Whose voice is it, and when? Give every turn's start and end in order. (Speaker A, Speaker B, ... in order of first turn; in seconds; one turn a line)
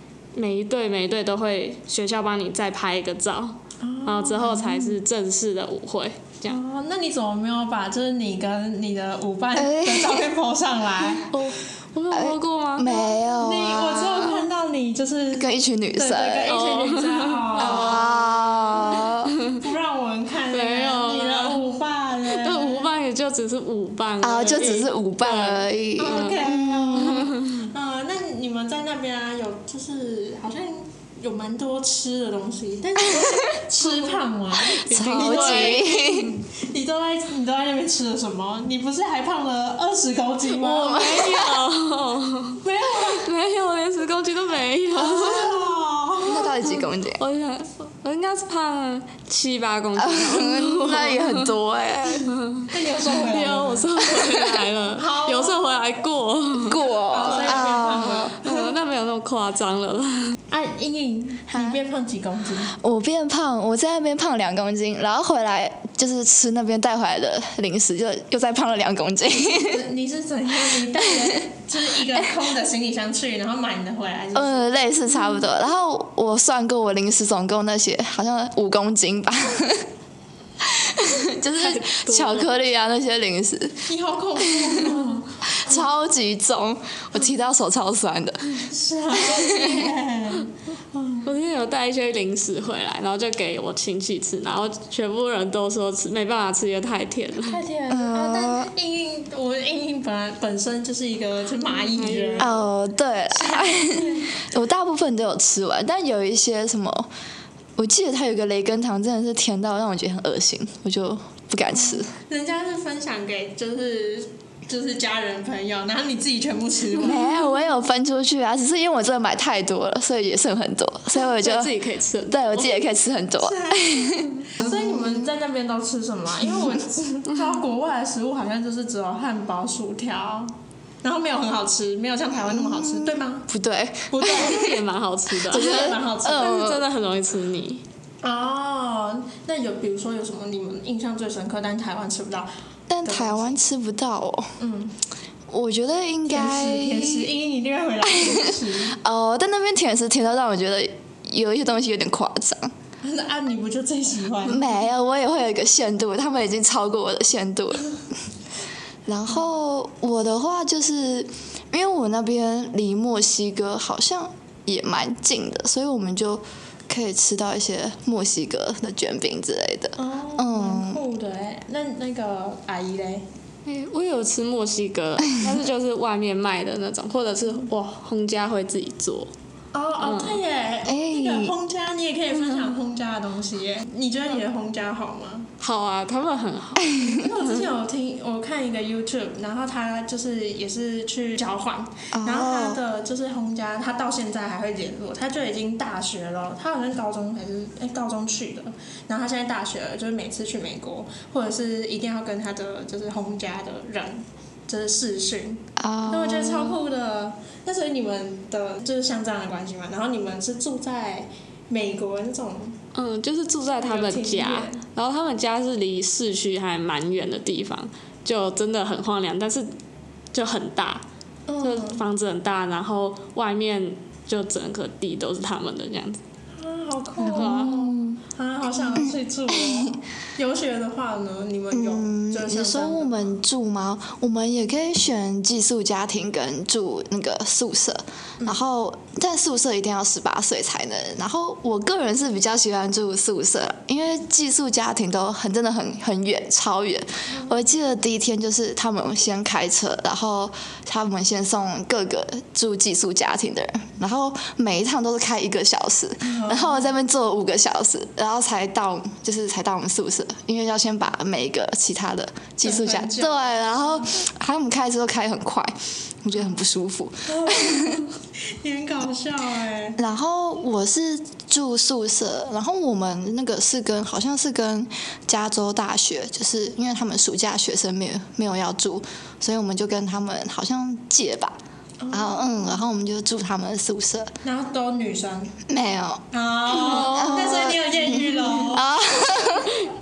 Speaker A: 0.3-6.6
Speaker B: 3.8-5.0
Speaker B: 6.5-11.3
Speaker C: 9.6-10.3
Speaker A: 11.3-12.9
Speaker C: 12.1-14.5
Speaker B: 12.8-18.2
Speaker C: 15.3-16.6
Speaker A: 16.5-19.5
Speaker C: 17.6-19.3
Speaker B: 18.7-22.9
Speaker A: 20.5-21.7
Speaker A: 22.2-27.7
Speaker C: 24.2-27.3
Speaker B: 26.0-41.4
Speaker C: 33.1-33.5
Speaker A: 34.8-36.2
Speaker C: 34.9-36.4
Speaker A: 40.5-45.6
Speaker C: 40.8-41.6
Speaker B: 42.6-43.3
Speaker B: 45.0-46.5
Speaker C: 46.2-47.2
Speaker A: 46.6-51.5
Speaker C: 50.0-52.3
Speaker A: 52.1-56.8
Speaker B: 52.7-53.9
Speaker C: 54.0-54.6
Speaker B: 55.0-55.7
Speaker C: 56.7-58.4
Speaker B: 57.1-58.7
Speaker A: 57.3-60.4
Speaker B: 60.5-62.8
Speaker C: 61.5-61.8
Speaker C: 62.8-69.8
Speaker B: 69.4-74.8
Speaker C: 71.0-71.4
Speaker C: 74.3-79.9
Speaker C: 80.6-83.9
Speaker A: 81.6-82.6
Speaker B: 83.9-85.3
Speaker C: 84.4-89.9
Speaker B: 88.7-91.3
Speaker A: 91.2-97.6
Speaker B: 97.5-102.5
Speaker C: 97.9-98.7
Speaker A: 101.9-102.6
Speaker C: 102.4-107.1
Speaker B: 103.3-104.3
Speaker C: 107.8-112.1
Speaker B: 111.8-117.3
Speaker C: 117.0-121.8
Speaker A: 121.2-122.6
Speaker C: 122.3-125.3
Speaker B: 123.4-133.5
Speaker C: 132.4-134.8
Speaker B: 134.1-134.7
Speaker A: 134.3-137.8
Speaker C: 135.5-136.9
Speaker B: 135.5-136.5
Speaker B: 138.2-142.5
Speaker C: 142.9-144.5
Speaker B: 143.0-143.6
Speaker B: 144.6-145.0
Speaker C: 145.5-147.3
Speaker B: 146.3-149.0
Speaker C: 148.1-152.7
Speaker B: 153.0-154.8
Speaker C: 154.4-157.9
Speaker C: 159.1-171.0
Speaker B: 170.0-173.3
Speaker A: 173.7-179.3
Speaker B: 179.7-185.5
Speaker A: 180.0-180.4
Speaker C: 180.9-181.5
Speaker A: 185.6-187.7
Speaker B: 186.9-212.8
Speaker C: 192.1-192.8
Speaker C: 205.8-206.8
Speaker A: 212.9-219.7
Speaker B: 213.7-214.8
Speaker A: 220.3-221.1
Speaker B: 221.5-222.0
Speaker A: 221.6-226.2
Speaker B: 226.6-233.2
Speaker C: 227.2-228.2
Speaker A: 227.3-227.9
Speaker C: 228.9-229.9
Speaker C: 231.7-268.1
Speaker B: 247.3-247.6
Speaker B: 256.2-256.9
Speaker B: 262.6-264.1
Speaker B: 267.3-270.0
Speaker C: 270.0-281.6
Speaker B: 282.0-282.8
Speaker C: 282.1-284.3
Speaker B: 284.4-285.6
Speaker C: 285.7-289.8
Speaker B: 286.3-288.9
Speaker A: 286.8-287.7